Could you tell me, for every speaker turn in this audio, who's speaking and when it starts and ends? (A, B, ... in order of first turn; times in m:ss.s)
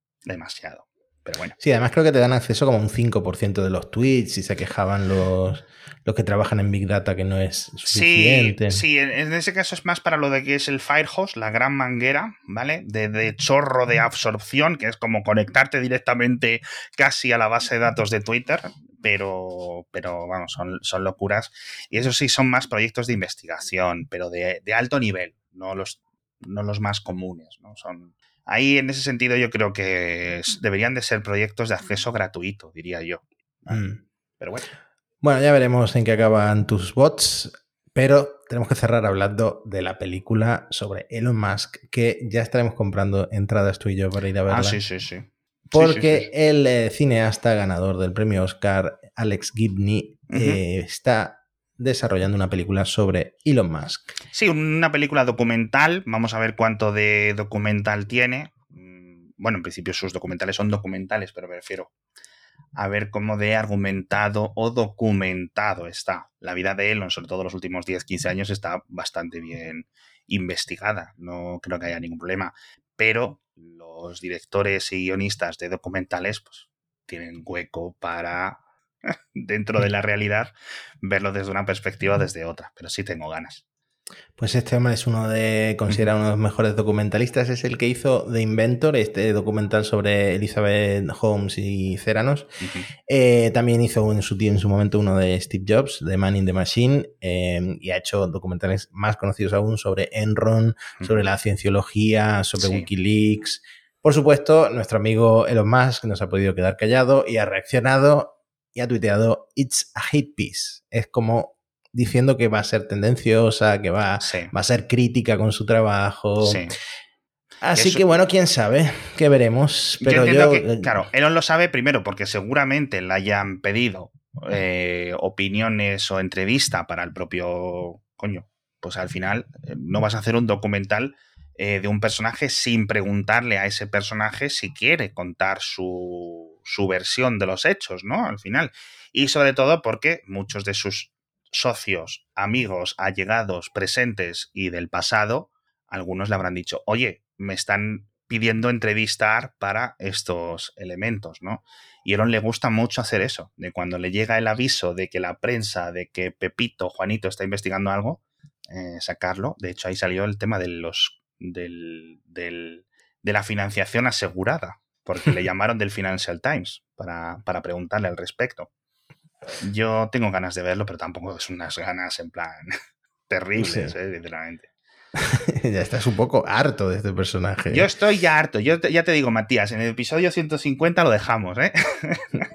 0:00.3-0:01.6 A
0:01.6-0:08.8 B
0:07.9-0:33.8 A
0:33.7-0:34.0 B
0:34.4-0:34.7 A
0:35.2-0:44.8 B
0:44.5-0:46.3 A
0:45.7-0:54.1 B
0:50.3-0:50.6 A
0:54.3-1:01.9 A
1:02.8-1:23.6 A
1:24.4-1:32.5 B
1:32.6-1:32.9 A
1:33.1-1:56.7 B
1:41.0-1:41.2 A
1:42.6-1:42.9 A
1:54.2-1:54.5 A
1:56.4-1:56.7 A
1:57.6-2:01.1 B
1:57.8-1:58.0 A
2:00.0-2:48.7 A
2:49.6-2:52.7 A
2:53.3-2:54.7 A
2:53.6-2:53.9 B
2:55.2-2:57.9 B
2:57.7-3:02.4 A